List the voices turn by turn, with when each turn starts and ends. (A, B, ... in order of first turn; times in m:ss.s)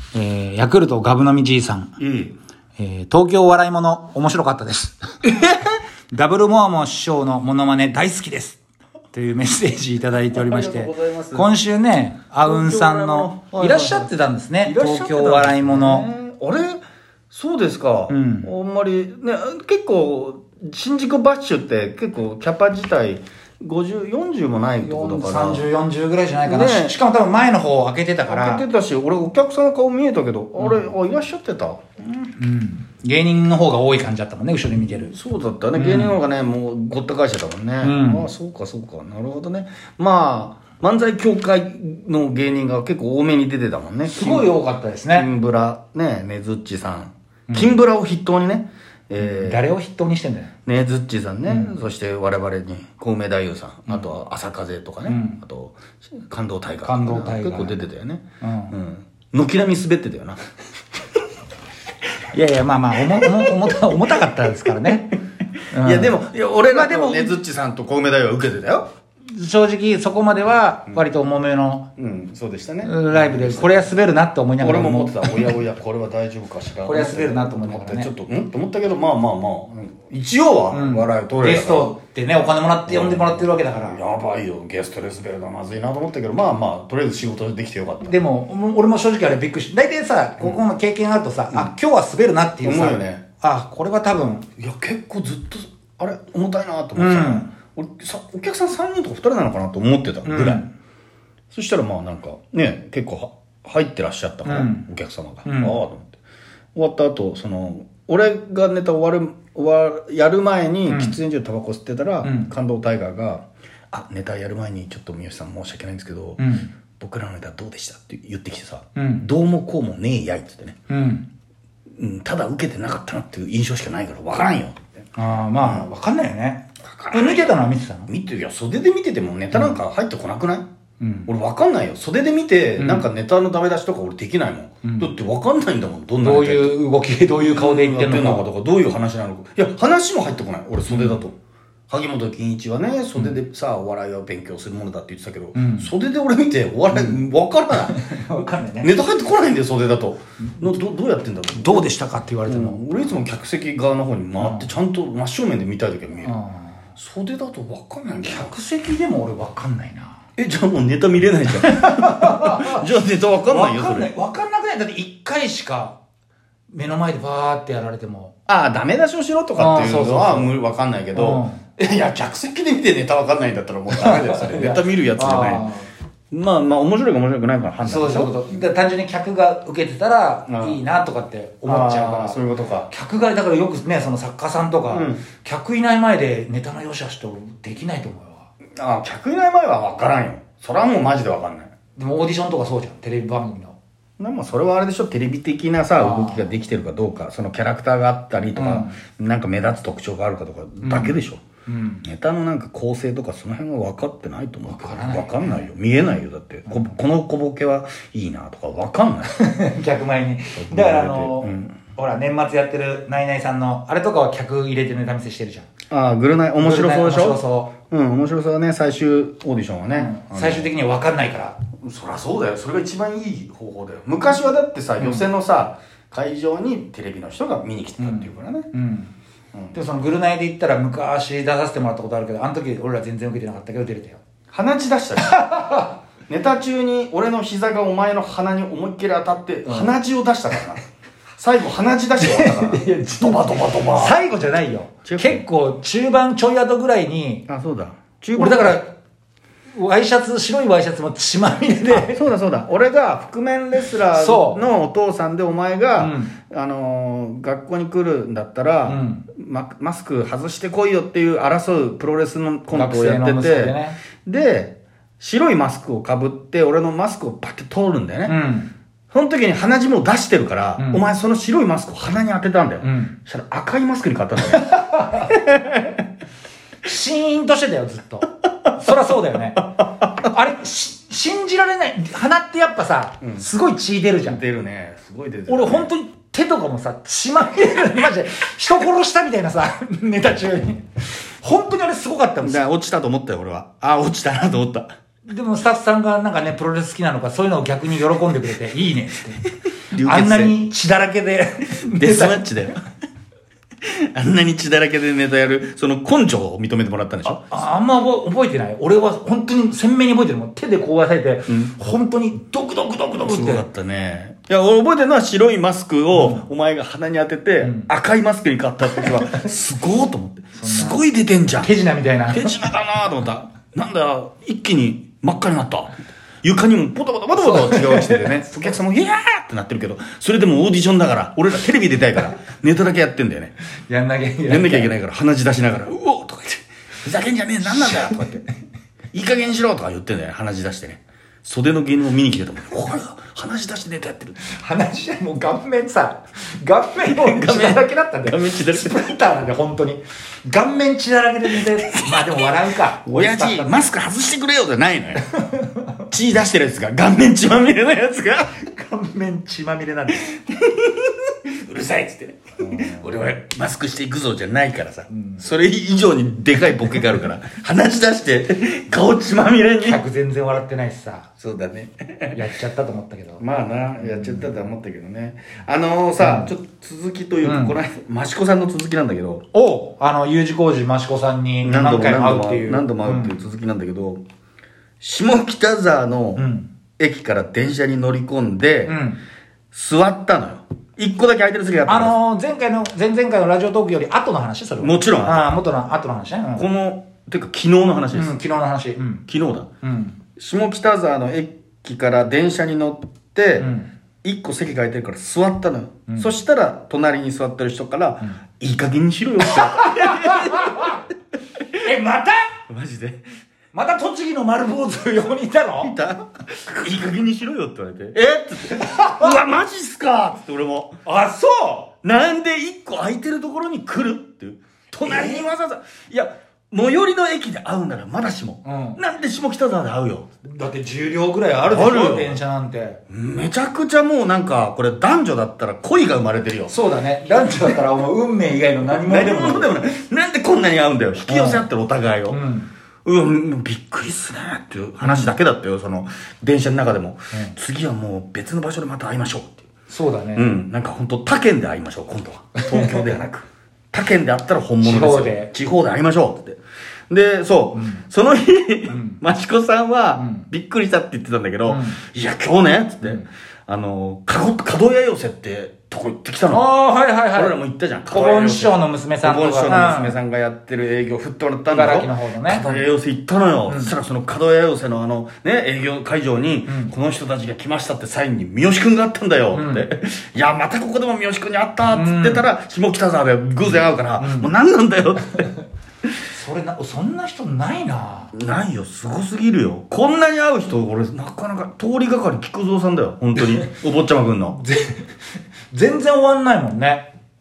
0:00.1-0:01.9 A
0:02.0-0:02.4 B
0:02.8-0:05.0 A
0:05.2-0:05.6 B
0:06.1-0:08.6 A
0:09.1-0:16.1 A
0:10.1-0:11.5 B
0:12.4-0:25.6 B
0:18.1-0:18.5 A
0:24.8-0:28.6 A
0:26.4-0:27.0 B
0:28.2-0:32.1 B
0:30.6-0:30.8 A
0:32.2-0:35.1 A
0:34.8-0:49.7 B
0:35.7-0:36.2 A
0:37.8-0:38.3 A
0:44.0-0:45.3 A
0:47.5-0:47.7 A
0:49.2-0:50.5 A
0:50.6-1:00.4 B
0:51.5-0:51.7 A
0:55.0-0:55.4 A
0:56.8-0:57.8 A
0:58.4-0:58.7 A
1:02.3-1:05.2 A
1:03.1-1:04.1 B
1:05.7-1:08.9 B
1:05.7-1:07.4 A
1:09.2-1:11.9 A
1:12.0-1:13.9 B
1:12.8-1:15.6 A
1:14.6-1:22.0 B
1:16.8-1:18.1 A
1:20.7-1:24.0 A
1:22.8-1:28.2 B
1:28.1-1:34.5 A
1:32.6-1:33.3 B
1:34.6-1:40.7 B
1:37.0-1:37.5 A
1:40.2-1:40.7 A
1:41.5-1:46.2 B
1:44.4-1:44.8 A
1:45.4-1:45.8 A
1:46.7-2:00.8 B
1:50.9-1:51.2 A
1:52.2-1:52.5 A
1:56.4-1:56.7 A
1:58.9-1:59.3 A
2:00.9-2:01.3 A
2:01.9-2:04.9 B
2:05.2-2:08.1 A
2:05.6-2:05.9 B
2:06.7-2:10.6 B
2:11.0-2:11.3 A
2:11.2-2:16.8 B
2:12.8-2:13.1 A
2:14.8-2:15.1 A
2:16.2-2:18.5 A
2:17.3-2:21.4 B
2:20.8-2:21.2 A
2:21.9-2:36.4 B
2:25.5-2:25.9 A
2:26.9-2:27.2 A
2:27.8-2:28.9 A
2:31.5-2:33.0 A
2:34.4-2:34.7 A
2:36.2-2:36.8 A
2:36.9-2:38.5 B
2:38.2-2:40.2 A
2:40.4-2:44.1 B
2:41.5-2:42.9 A
2:43.4-2:46.0 A
2:46.7-2:48.3 A
2:48.5-2:55.6 B
2:49.6-2:50.5 A
2:51.1-2:51.6 A
2:53.9-2:55.9 A
2:56.3-2:58.4 B
2:57.8-3:08.5 A
3:00.5-3:00.8 B
3:01.6-3:02.9 B
3:04.9-3:05.3 B
3:08.8-3:11.7 B
3:11.9-3:13.8 A
3:14.2-3:21.4 B
3:16.0-3:16.5 A
3:18.6-3:19.0 A
3:20.8-3:22.0 A
3:22.0-3:29.3 B
3:24.7-3:25.6 A
3:29.3-3:35.7 A
3:30.5-3:31.9 B
3:35.9-3:40.7 B
3:36.6-3:37.8 A
3:39.9-3:41.6 A
3:41.7-3:48.7 B
3:45.0-3:45.3 A
3:48.0-3:49.1 A
3:49.7-3:54.2 A
3:54.5-4:00.8 B
3:55.2-3:56.0 A
3:59.7-3:59.9 A
4:01.4-4:04.2 B
4:02.2-4:07.5 A
4:05.0-4:05.4 B
4:07.5-4:08.8 B
4:08.4-4:08.9 A
4:09.7-4:12.2 A
4:11.9-4:28.4 B
4:14.1-4:14.7 A
4:16.0-4:16.4 A
4:18.8-4:19.3 A
4:22.7-4:24.0 A
4:28.2-4:28.7 A
4:29.1-4:36.0 B
4:30.8-4:31.1 A
4:32.8-4:33.2 A
4:36.8-4:44.4 A
4:43.2-4:43.5 B
4:44.2-4:45.9 B
4:45.5-4:52.6 A
4:52.4-4:54.9 B
4:55.2-4:59.4 A
4:59.4-5:00.6 B
4:59.9-5:02.5 A
5:01.7-5:02.8 B
5:03.8-5:07.5 B
5:07.3-5:13.7 A
5:11.5-5:11.7 B
5:13.2-5:21.7 B
5:16.1-5:16.4 A
5:17.6-5:17.9 A
5:18.9-5:19.5 A
5:20.6-5:21.0 A
5:21.6-5:22.6 A
5:22.3-5:33.5 B
5:27.4-5:28.5 A
5:33.9-5:34.9 A
5:34.4-5:38.5 B
5:37.6-5:38.2 A
5:39.1-5:44.4 B
5:44.4-5:53.9 A
5:47.0-5:49.2 B
5:51.4-5:55.3 B
5:55.3-5:56.0 A
5:56.1-5:58.6 B
5:58.6-6:00.3 A
6:00.1-6:10.0 B
6:02.6-6:03.1 A
6:05.1-6:05.5 A
6:09.8-6:11.3 A
6:11.3-6:12.5 B
6:12.3-6:13.4 A
6:13.4-6:19.4 B
6:14.0-6:14.5 A
6:16.2-6:16.5 A
6:17.4-6:17.8 A
6:19.5-6:23.4 A
6:21.6-6:24.2 B
6:25.0-6:29.0 B
6:26.4-6:26.7 A
6:28.8-6:29.2 A
6:29.7-6:32.2 B
6:31.9-6:36.7 A
6:34.8-6:35.6 B
6:36.5-6:38.4 B
6:38.1-6:39.2 A
6:39.2-6:39.7 B
6:39.8-6:40.2 A
6:40.3-6:43.7 B
6:43.6-6:43.9 A
6:44.2-6:51.0 B
6:49.5-6:51.0 A
6:51.6-6:51.9 B
6:51.8-6:52.5 A
6:52.7-6:53.2 B
6:53.7-6:56.0 A
6:55.8-7:01.0 B
6:58.7-6:59.6 A
7:01.0-7:01.9 A
7:01.9-7:10.3 B
7:05.0-7:05.4 A
7:08.6-7:09.0 A
7:10.4-7:13.0 A
7:11.6-7:12.4 B
7:13.1-7:17.8 B
7:16.7-7:19.8 A
7:18.8-7:22.4 B
7:21.3-7:21.7 A
7:22.3-7:22.7 A
7:23.0-7:29.7 B
7:25.0-7:25.3 A
7:29.9-7:30.5 A
7:30.3-7:46.8 B
7:32.6-7:33.0 A
7:34.8-7:35.5 A
7:37.8-7:38.0 A
7:38.9-7:39.2 A
7:40.2-7:40.4 A
7:41.6-7:42.0 A
7:46.5-7:47.6 A
7:47.3-8:05.5 B
7:48.1-7:50.2 A
7:51.7-7:52.8 A
7:53.6-7:54.0 A
7:56.7-7:56.9 A
7:59.5-7:59.9 A
8:01.9-8:02.5 A
8:03.6-8:04.5 A
8:06.3-8:08.3 A
8:08.3-8:14.6 B
8:13.3-8:13.7 A
8:14.5-8:15.1 A
8:15.7-8:17.1 A